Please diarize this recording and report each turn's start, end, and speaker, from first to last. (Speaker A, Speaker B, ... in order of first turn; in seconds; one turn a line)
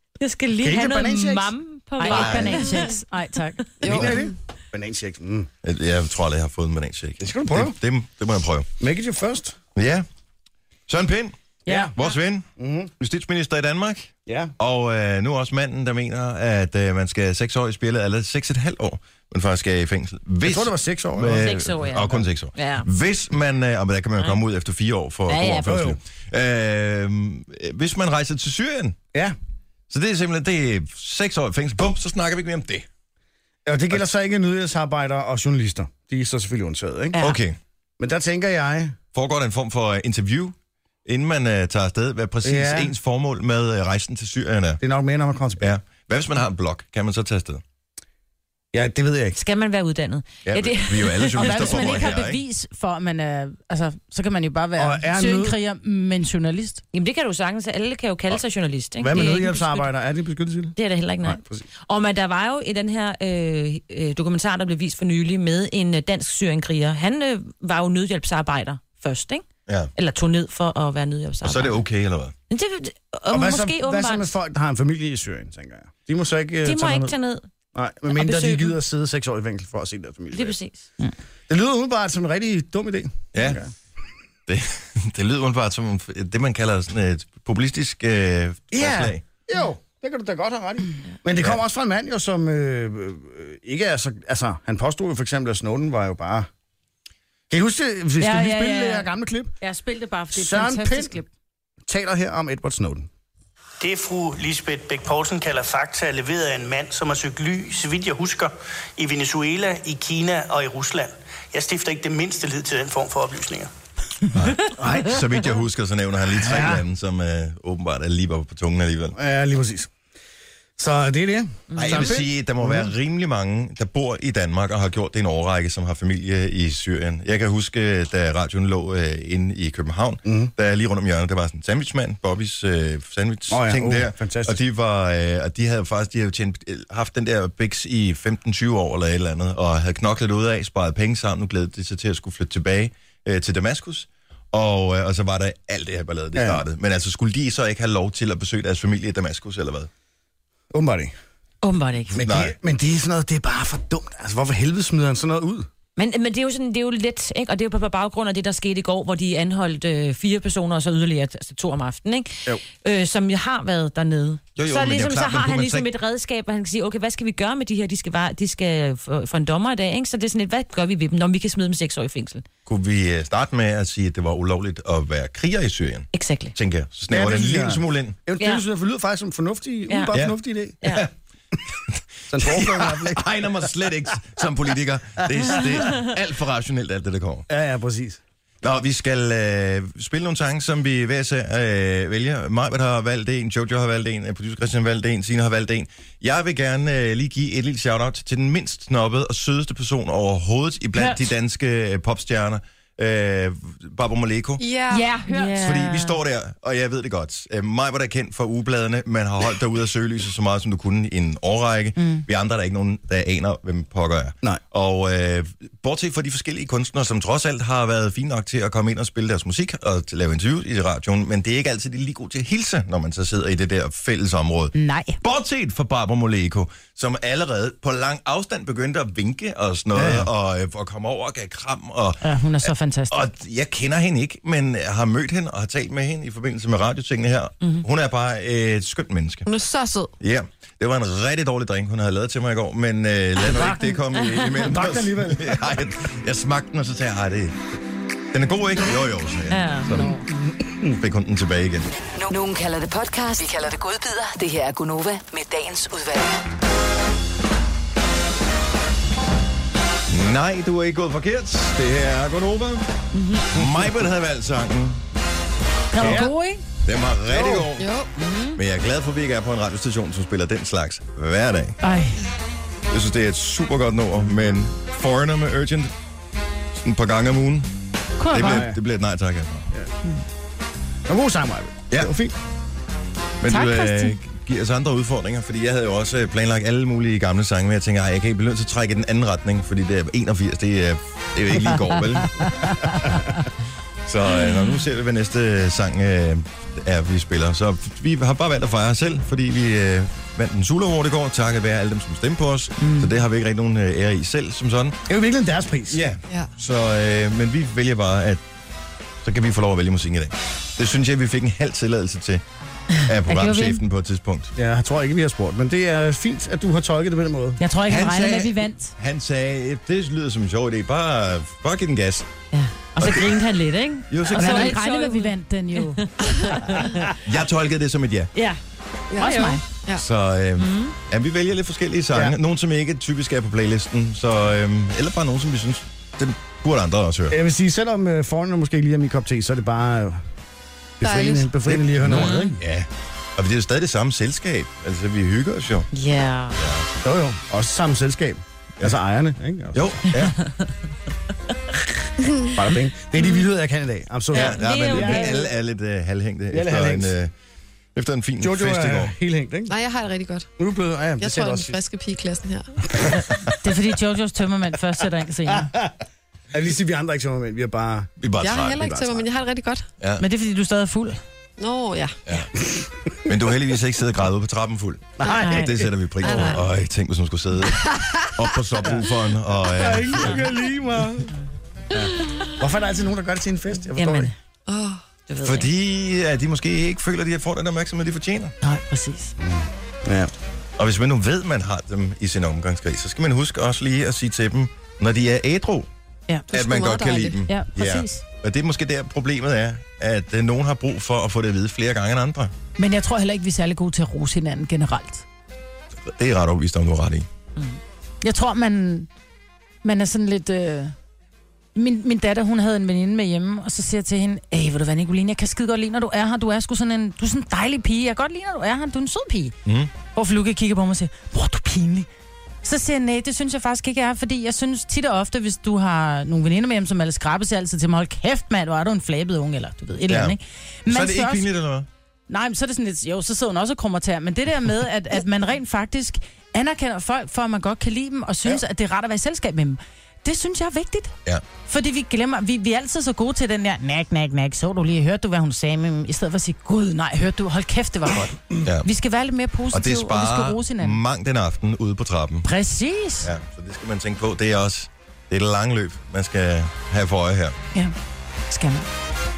Speaker A: 0.2-3.0
Speaker B: 0.6-1.5
Speaker C: 2.0-3.6
Speaker D: 2.1-2.6
Speaker B: 3.8-5.5
Speaker E: 3.8-4.3
Speaker D: 3.9-4.1
Speaker D: 5.6-8.7
Speaker B: 7.2-7.8
Speaker B: 8.8-9.6
Speaker D: 9.8-10.0
Speaker D: 10.9-11.3
Speaker B: 11.7-11.9
Speaker D: 11.9-12.4
Speaker B: 12.6-12.9
Speaker D: 13.0-29.0
Speaker B: 14.2-14.5
Speaker B: 20.4-21.5
Speaker A: 21.3-22.9
Speaker A: 25.3-25.8
Speaker B: 25.6-26.0
Speaker D: 29.9-32.9
Speaker B: 33.6-37.1
Speaker D: 37.2-37.6
Speaker B: 38.0-39.0
Speaker D: 39.1-44.8
Speaker B: 42.4-42.9
Speaker B: 44.8-45.7
Speaker D: 45.6-47.6
Speaker B: 48.7-49.4
Speaker A: 49.4-52.1
Speaker D: 50.5-52.4
Speaker C: 51.4-56.8
Speaker B: 54.8-55.6
Speaker A: 56.9-59.9
Speaker B: 59.0-61.6
Speaker A: 60.8-71.8
Speaker D: 71.4-72.3
Speaker A: 72.5-74.3
Speaker B: 73.3-77.1
Speaker A: 76.6-77.4
Speaker B: 77.7-80.6
Speaker A: 78.1-78.7
Speaker A: 80.3-80.8
Speaker B: 81.5-83.7
Speaker D: 83.3-83.6
Speaker D: 84.5-89.2
Speaker B: 88.7-96.5
Speaker B: 97.5-99.5
Speaker C: 98.2-99.1
Speaker C: 99.6-101.3
Speaker B: 100.3-101.2
Speaker B: 101.9-103.1
Speaker F: 103.8-113.7
Speaker D: 114.3-119.1
Speaker B: 114.8-115.2
Speaker B: 116.4-116.8
Speaker B: 119.1-119.9
Speaker B: 120.8-122.9
Speaker A: 121.7-122.2
Speaker D: 121.8-149.9
Speaker B: 130.2-130.5
Speaker B: 133.5-134.6
Speaker B: 146.3-146.6
Speaker B: 150.7-151.1
Speaker A: 151.6-152.2
Speaker B: 152.1-155.7
Speaker D: 152.2-152.5
Speaker A: 156.0-172.4
Speaker D: 164.6-165.9
Speaker D: 172.7-178.2
Speaker A: 176.1-176.5
Speaker B: 177.1-180.9
Speaker A: 179.9-180.1
Speaker D: 180.1-181.1
Speaker D: 181.9-187.4
Speaker B: 182.3-183.6
Speaker B: 187.5-188.2
Speaker D: 188.6-204.6
Speaker E: 204.6-205.1
Speaker C: 204.9-205.8
Speaker A: 205.3-206.2
Speaker D: 205.6-239.4
Speaker C: 212.0-212.2
Speaker C: 224.7-225.2
Speaker B: 229.9-230.3
Speaker C: 232.2-233.2
Speaker E: 239.4-240.1
Speaker D: 240.2-247.6
Speaker B: 243.4-244.0
Speaker B: 244.6-245.6
Speaker D: 248.3-250.2
Speaker A: 249.5-249.9
Speaker B: 249.9-251.0
Speaker D: 250.9-251.9
Speaker G: 252.2-256.4
Speaker D: 260.1-262.9
Speaker A: 263.1-263.6
Speaker D: 263.5-265.0
Speaker C: 265.9-266.6
Speaker D: 266.0-266.3
Speaker B: 266.0-266.3
Speaker D: 266.8-267.9
Speaker B: 267.3-267.7
Speaker E: 267.8-268.1
Speaker A: 268.2-268.6
Speaker D: 268.6-271.8
Speaker C: 271.8-272.2
Speaker D: 272.9-275.9
Speaker D: 276.8-277.7
Speaker C: 278.2-278.7
Speaker D: 278.3-279.7
Speaker B: 278.4-278.8
Speaker B: 281.1-282.3
Speaker D: 283.4-292.7
Speaker C: 283.5-284.1
Speaker C: 292.2-293.4
Speaker D: 294.1-305.0
Speaker C: 302.8-303.1
Speaker B: 305.1-306.0
Speaker D: 305.9-308.4
Speaker D: 309.2-312.4
Speaker D: 313.0-314.5
Speaker C: 313.3-313.8
Speaker B: 314.6-317.6
Speaker C: 317.6-318.9
Speaker D: 317.9-322.3
Speaker A: 322.5-327.1
Speaker D: 323.0-323.4
Speaker D: 324.1-324.8
Speaker C: 324.3-326.0
Speaker D: 327.2-328.3
Speaker E: 329.1-330.0
Speaker C: 329.2-329.6
Speaker A: 329.2-329.5
Speaker D: 329.9-337.4
Speaker A: 330.6-330.9
Speaker B: 337.3-340.2
Speaker B: 341.0-342.6
Speaker E: 341.0-341.5
Speaker D: 341.6-345.9
Speaker A: 342.1-342.5
Speaker A: 345.9-346.6
Speaker D: 346.6-346.9
Speaker B: 347.0-350.0
Speaker D: 349.7-350.4
Speaker E: 352.2-352.5
Speaker B: 352.5-355.5
Speaker A: 354.3-355.5
Speaker D: 354.3-357.3
Speaker B: 356.5-357.1
Speaker D: 357.9-359.1
Speaker B: 358.4-359.7
Speaker E: 359.7-360.5
Speaker B: 360.6-361.8
Speaker E: 361.2-363.1
Speaker C: 363.4-365.7
Speaker B: 365.5-366.0
Speaker B: 366.5-368.1
Speaker D: 368.2-369.0
Speaker E: 368.4-369.9
Speaker B: 368.7-369.2
Speaker C: 370.2-371.2
Speaker E: 371.6-372.2
Speaker B: 372.7-373.1
Speaker D: 373.2-380.4
Speaker B: 375.2-375.9
Speaker A: 375.4-376.6
Speaker E: 376.2-376.6
Speaker E: 377.9-378.3
Speaker B: 379.7-381.3
Speaker B: 381.9-384.3
Speaker A: 383.9-384.3
Speaker E: 384.7-385.0
Speaker A: 385.3-385.7
Speaker D: 385.4-388.5
Speaker C: 388.6-389.3
Speaker B: 389.4-390.3
Speaker D: 390.8-395.9
Speaker E: 396.5-397.4
Speaker D: 396.5-402.5
Speaker C: 397.4-398.2
Speaker C: 402.8-405.2
Speaker D: 406.1-407.3
Speaker C: 408.2-409.1
Speaker C: 409.8-410.9
Speaker C: 411.7-419.6
Speaker D: 419.6-419.9
Speaker C: 420.1-422.1
Speaker C: 422.6-431.5
Speaker D: 430.1-431.9
Speaker C: 432.3-441.1
Speaker C: 441.7-451.0
Speaker D: 448.6-448.9
Speaker D: 449.7-452.5
Speaker C: 452.4-453.3
Speaker D: 453.2-457.6
Speaker C: 458.5-458.9